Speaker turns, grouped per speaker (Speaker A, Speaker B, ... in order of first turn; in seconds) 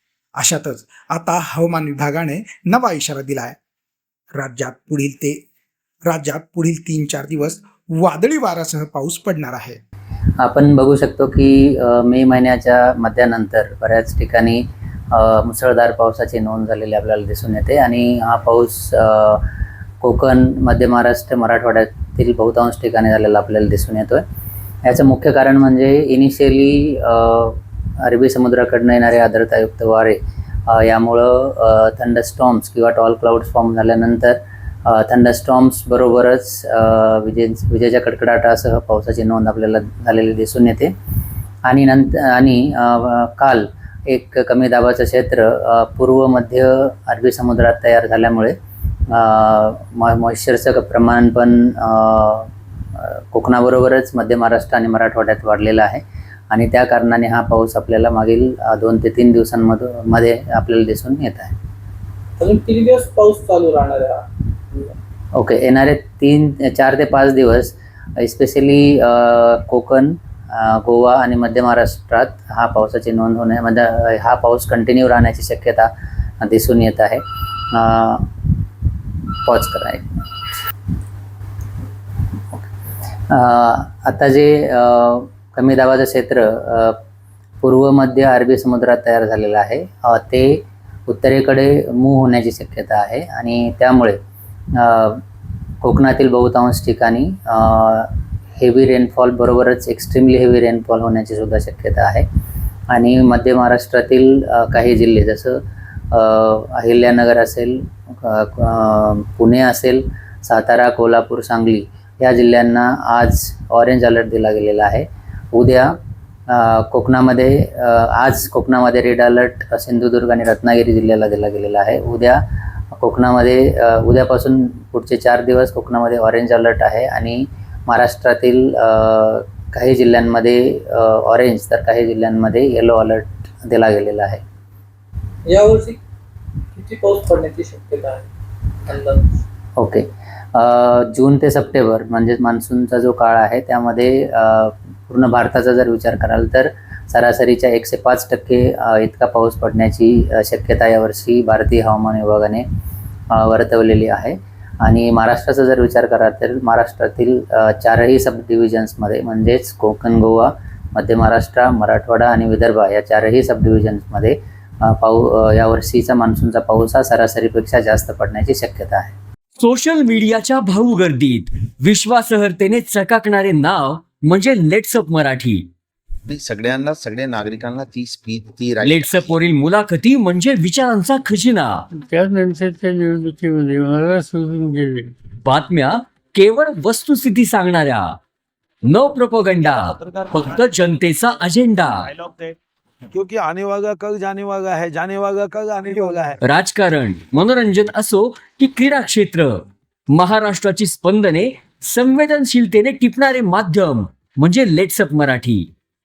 Speaker A: 0.4-3.6, 4.3-5.4, 6.1-9.8
Speaker B: 10.4-19.5, 20.0-24.2, 24.8-40.9, 41.7-48.5, 49.1-61.5, 65.3-75.9, 76.4-78.5, 79.4-80.5, 83.3-87.0, 87.6-94.2, 94.8-95.2, 95.8-102.3, 102.9-116.0, 116.5-134.4, 139.8-152.7, 153.3-169.2
Speaker C: 62.4-65.0, 135.5-136.0, 136.8-138.3, 138.9-139.4
Speaker D: 169.6-175.7, 178.8-181.9, 185.4-188.2, 188.8-192.1, 196.4-205.7
Speaker E: 176.3-179.3
Speaker F: 181.9-185.1
Speaker G: 189.6-190.6, 192.0-192.6, 193.1-196.4